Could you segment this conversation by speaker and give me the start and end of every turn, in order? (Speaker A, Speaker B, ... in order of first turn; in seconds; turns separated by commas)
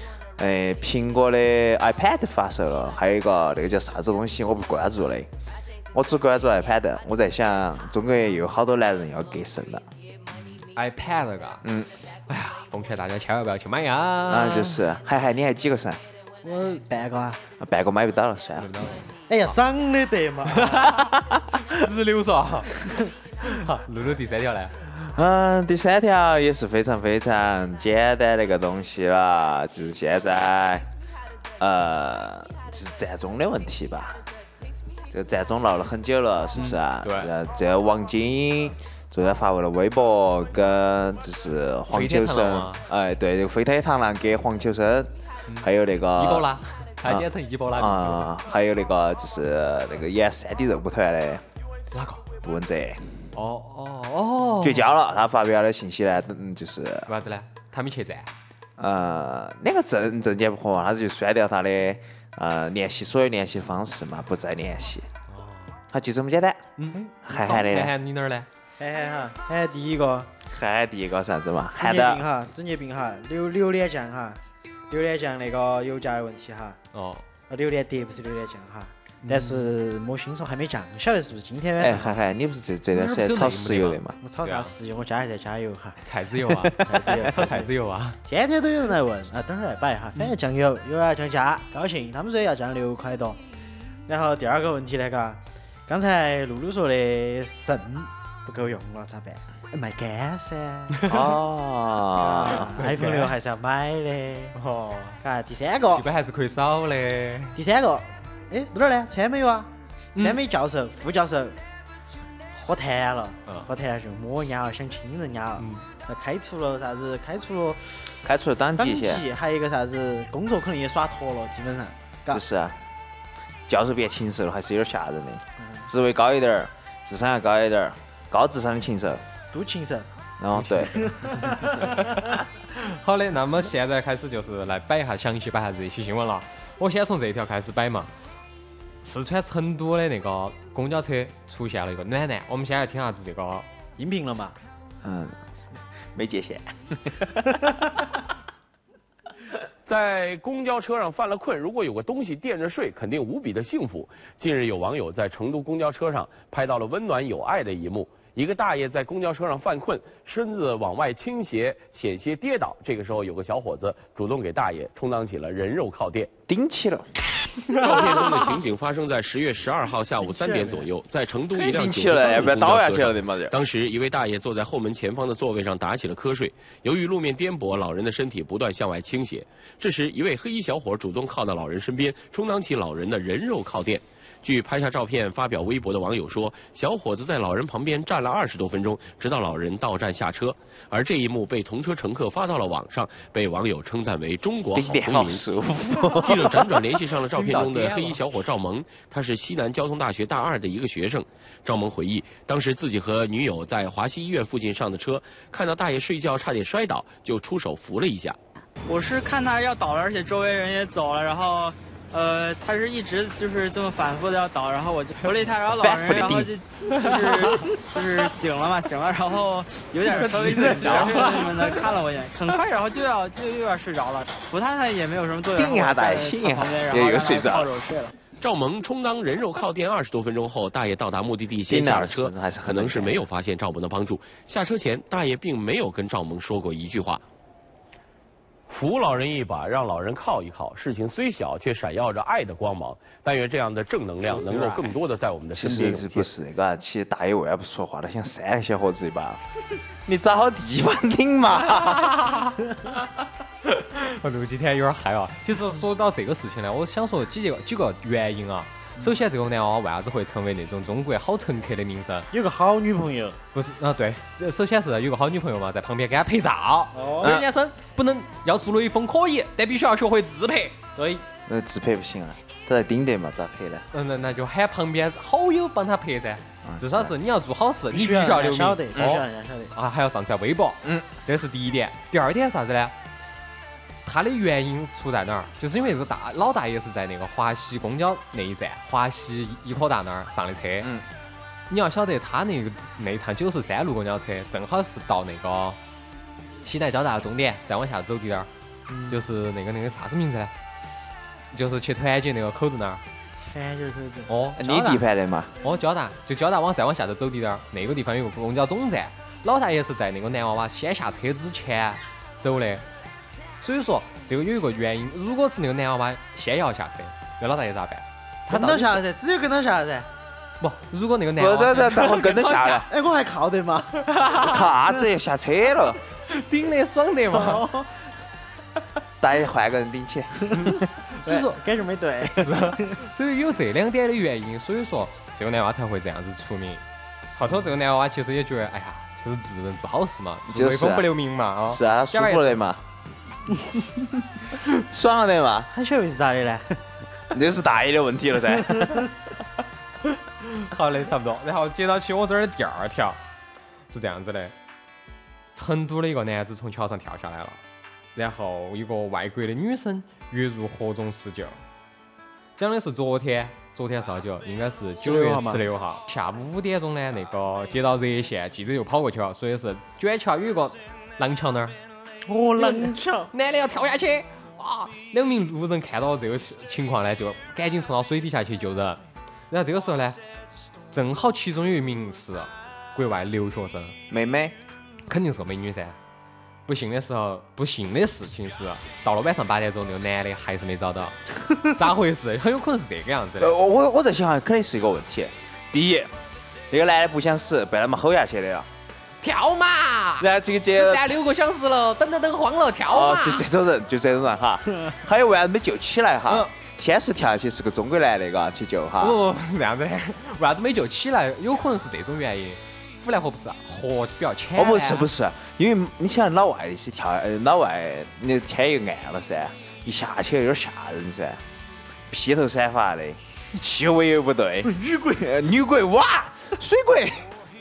Speaker A: 0.4-5.3, Speaker A: 5.9-9.8, Speaker B: 10.4-11.6, Speaker A: 11.6-11.9, Speaker B: 12.3-14.9, Speaker A: 14.3-16.0, Speaker C: 16.4-17.4, Speaker A: 17.6-18.7, Speaker B: 18.6-19.5, Speaker C: 19.3-21.1, Speaker B: 20.5-22.8, Speaker A: 21.3-21.6, Speaker B: 23.4-24.7, Speaker A: 24.9-30.9, Speaker A: 31.6-34.2, Speaker A: 35.1-51.4, Speaker B: 36.5-37.3, Speaker B: 41.9-42.8, Speaker B: 45.5-48.2, Speaker B: 51.9-52.2, Speaker A: 52.4-53.3, Speaker B: 53.3-54.9, Speaker A: 54.6-57.1, Speaker B: 57.1-58.3, Speaker A: 58.8-65.1, Speaker B: 65.3-65.8, Speaker A: 65.9-66.7, Speaker B: 66.8-68.5, Speaker A: 67.2-67.9, Speaker C: 68.8-70.3, Speaker A: 70.5-72.2, Speaker C: 71.8-76.8, Speaker B: 76.9-77.2, Speaker C: 77.5-82.1, Speaker B: 79.2-79.7, Speaker A: 81.8-84.2, Speaker B: 82.9-84.7, Speaker C: 84.2-86.0, Speaker B: 86.0-88.2, Speaker C: 86.6-87.7, Speaker C: 88.2-93.4, Speaker C: 94.1-101.1, Speaker B: 101.0-101.3, Speaker A: 101.1-102.7, Speaker C: 102.1-104.5, Speaker B: 102.6-103.3, Speaker B: 104.5-105.2, Speaker C: 105.2-106.0, Speaker B: 105.8-107.6, Speaker C: 107.5-111.6, Speaker B: 110.1-110.4, Speaker C: 112.5-118.1, Speaker B: 115.6-115.8, Speaker A: 118.2-119.2, Speaker C: 118.8-122.4, Speaker A: 122.3-122.8, Speaker A: 123.7-129.2, Speaker C: 125.6-125.8, Speaker C: 129.5-130.1, Speaker A: 130.4-131.1, Speaker B: 130.5-138.1, Speaker C: 131.1-132.2, Speaker B: 139.0-143.7, Speaker C: 144.0-144.6, Speaker A: 145.0-145.4, Speaker A: 146.1-147.9, Speaker D: 149.9-166.3, Speaker A: 166.5-167.1, Speaker B: 167.7-168.4, Speaker D: 167.7-195.4, Speaker B: 170.3-170.9, Speaker A: 171.5-173.6, Speaker A: 194.7-197.2, Speaker D: 196.1-208.4, Speaker B: 197.4-198.2, Speaker E: 208.9-228.1, Speaker A: 215.7-216.5, Speaker B: 216.8-217.8, Speaker B: 220.1-221.8, Speaker C: 220.4-221.3, Speaker A: 225.5-227.7, Speaker D: 228.4-237.2, Speaker A: 231.7-233.3, Speaker D: 238.7-246.3, Speaker B: 244.2-244.9, Speaker A: 245.5-249.4, Speaker A: 250.0-252.2, Speaker B: 251.7-253.0, Speaker B: 253.6-262.3, Speaker C: 262.3-263.4, Speaker B: 263.5-270.8, Speaker C: 266.9-267.4, Speaker A: 267.2-267.5, Speaker C: 270.9-271.2, Speaker A: 271.5-273.8, Speaker B: 273.9-282.9, Speaker A: 276.6-277.1, Speaker C: 277.9-279.7, Speaker A: 278.9-279.2, Speaker B: 284.0-290.9, Speaker B: 291.7-295.8, Speaker B: 296.6-298.5, Speaker C: 298.9-299.2, Speaker B: 299.1-300.5, Speaker B: 301.5-303.0, Speaker C: 303.4-305.0, Speaker B: 304.3-304.6, Speaker A: 304.6-305.5, Speaker B: 305.6-312.8, Speaker B: 313.6-319.0, Speaker C: 318.5-320.1, Speaker B: 320.6-322.9, Speaker A: 321.4-322.9, Speaker C: 322.9-324.1, Speaker B: 324.0-324.7, Speaker A: 324.3-326.0, Speaker B: 326.3-327.7, Speaker C: 327.3-327.9, Speaker A: 329.2-330.8, Speaker C: 330.5-333.0, Speaker B: 330.6-331.6, Speaker B: 332.3-336.8, Speaker B: 337.3-342.6, Speaker A: 340.5-341.1, Speaker A: 341.6-342.8, Speaker A: 344.6-345.7, Speaker C: 345.7-346.8, Speaker A: 347.3-349.1, Speaker C: 348.7-349.0, Speaker B: 350.4-353.2, Speaker B: 353.9-354.5, Speaker B: 355.5-357.6, Speaker B: 358.1-361.6, Speaker B: 362.6-371.8, Speaker C: 365.0-365.6, Speaker C: 372.2-373.3, Speaker B: 372.6-380.2, Speaker B: 380.9-384.0, Speaker A: 384.1-384.6, Speaker B: 385.1-386.0, Speaker B: 386.7-393.6, Speaker A: 393.4-396.1, Speaker A: 396.7-398.7, Speaker B: 399.2-403.4, Speaker A: 400.2-401.2, Speaker A: 402.9-409.2, Speaker B: 409.0-415.1, Speaker A: 414.5-421.4, Speaker A: 422.1-427.3, Speaker C: 424.6-425.3